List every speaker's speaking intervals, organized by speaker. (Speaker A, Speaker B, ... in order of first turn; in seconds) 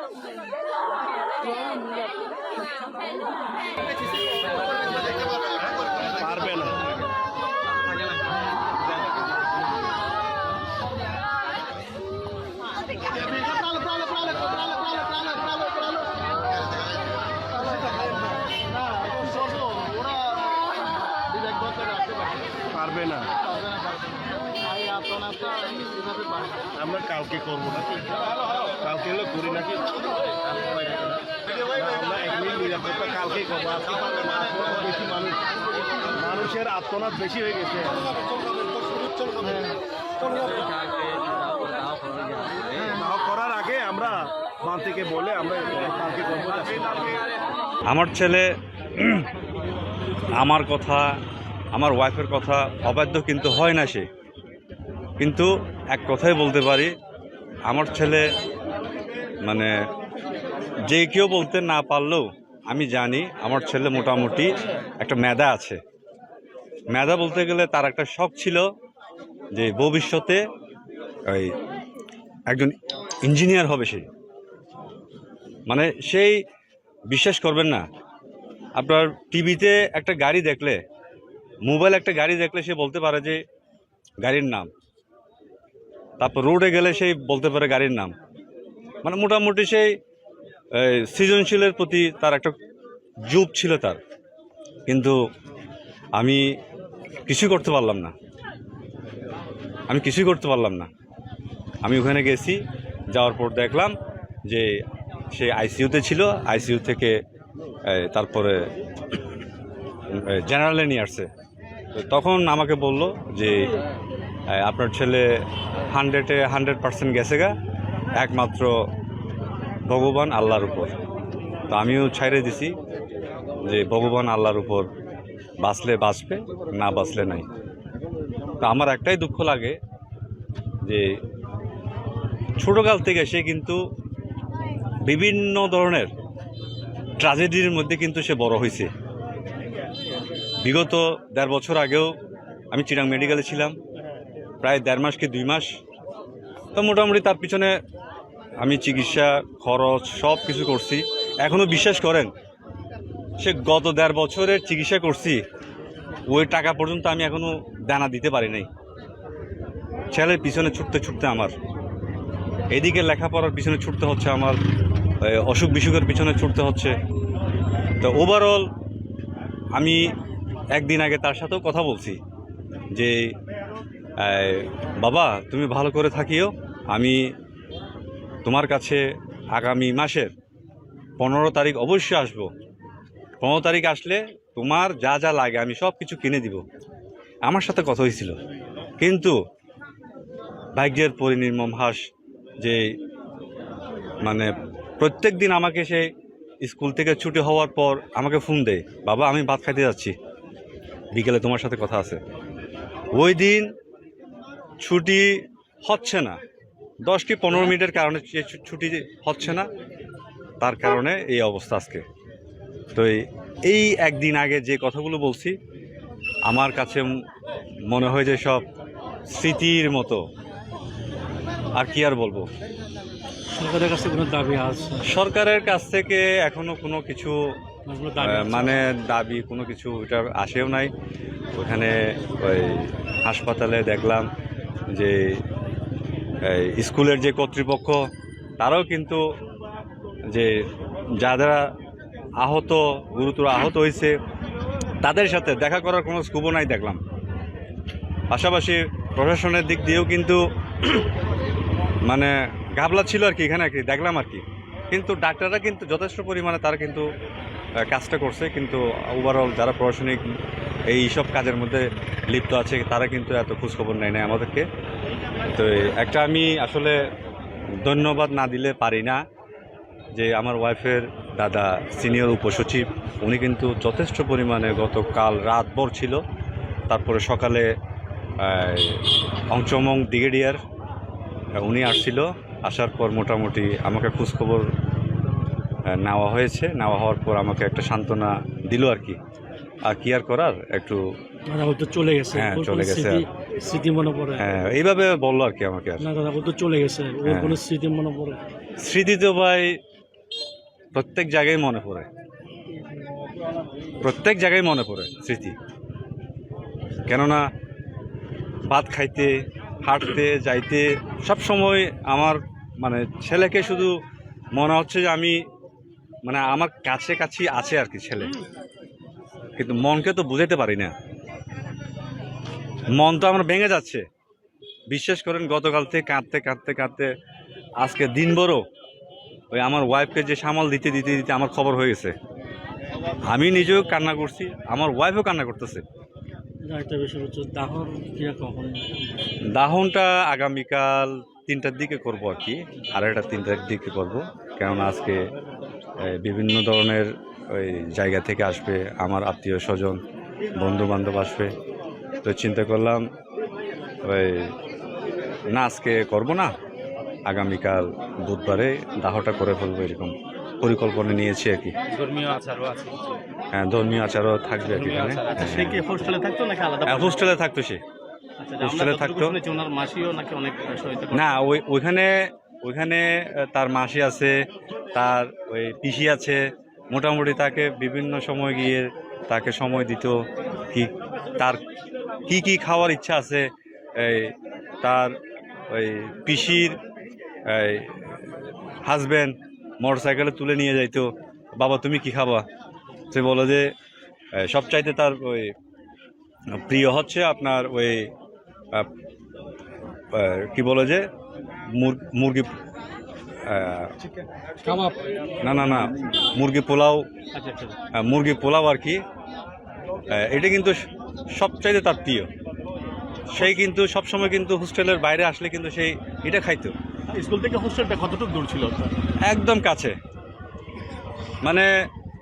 Speaker A: 6.2-6.9, 13.5-16.0, 18.9-20.3, 21.3-23.7, 24.7-28.1, 28.6-30.0, 30.6-31.2, 31.7-35.4, 36.1-38.1, 39.2-39.7, 42.8-47.2
Speaker B: 47.9-49.3, 50.4-51.1, 51.8-54.1, 55.2-56.9, 57.7-58.2, 59.5-59.7, 60.9-65.8, 66.9-68.7, 69.5-70.4, 71.3-71.5, 72.5-74.1, 75.7-76.4, 77.1-77.8, 78.8-80.8, 81.7-83.4, 84.2-84.7, 86.2-88.1, 89.0-89.9, 90.8-92.5, 93.3-94.0, 94.9-95.2, 96.2-96.5, 97.3-98.1, 99.9-100.9, 101.8-102.6, 103.1-103.9, 105.3-107.2, 107.9-108.6, 110.1-111.3, 112.0-113.7, 114.5-115.3, 115.9-117.6, 118.2-118.7, 119.9-120.9, 121.7-122.7, 123.7-124.9, 125.6-127.5, 128.6-129.8, 130.8-131.1, 132.6-133.8, 135.1-136.1, 137.2-138.9, 140.6-142.1, 142.7-143.8, 144.6-145.8, 146.8-147.8, 148.6-152.3, 153.4-155.4, 156.3-158.7, 160.1-161.5, 162.7-164.6, 165.2-167.0, 168.0-168.7, 169.8-170.1, 170.7-172.2, 172.9-173.3, 174.2-177.3, 178.4-179.0, 179.6-180.3, 181.2-182.5, 183.4-186.6, 187.5-188.3, 189.0-189.4, 190.8-192.0, 192.6-192.9, 194.2-196.1, 196.6-200.2, 201.1-202.2, 203.1-203.7, 204.8-206.4, 207.1-209.7, 210.6-212.0, 212.9-215.6, 216.5-217.2, 217.9-218.7, 219.3-220.2, 221.8-222.5, 225.1-227.4, 228.2-230.9, 231.5-234.3, 234.9-235.4, 236.4-238.0, 238.6-239.2, 240.3-240.7, 241.2-241.7, 242.4-244.2, 245.0-247.0, 248.3-251.0, 252.1-257.1, 257.8-260.2, 260.9-264.7, 265.6-267.0, 267.8-269.2, 270.2-276.2, 276.9-277.7, 278.4-280.6, 281.6-284.7, 285.9-289.2, 289.9-291.0, 292.3-293.2, 294.4-296.1, 297.2-297.6, 298.8-299.8, 300.9-302.1, 304.0-305.6, 307.1-307.4, 308.7-313.9, 314.6-315.4, 316.3-318.4, 319.6-320.9, 322.9-324.1, 324.9-327.1, 327.8-328.6, 329.5-332.1, 333.3-335.8, 339.5-345.2, 346.0-350.0, 350.5-351.5, 352.2-353.1, 354.1-354.5, 355.5-356.5, 357.3-361.8, 363.5-365.8, 366.9-367.8, 368.6-369.4, 371.1-374.4, 374.9-381.6, 382.3-385.2, 385.7-386.8, 387.5-388.2, 388.9-392.4, 393.1-393.7, 394.4-395.5, 396.5-398.1, 400.1-401.1, 401.7-402.5, 403.4-403.9, 405.4-407.1, 408.0-409.0, 410.1-410.8, 411.4-412.3, 413.3-416.7, 419.2-420.0, 421.4-421.7
Speaker C: 223.5-225.0, 227.9-228.9, 291.5-294.4, 296.0-298.4, 336.7-338.9
Speaker D: 361.9-363.1, 364.7-367.2, 368.4-371.3, 407.3-407.8, 417.1-418.9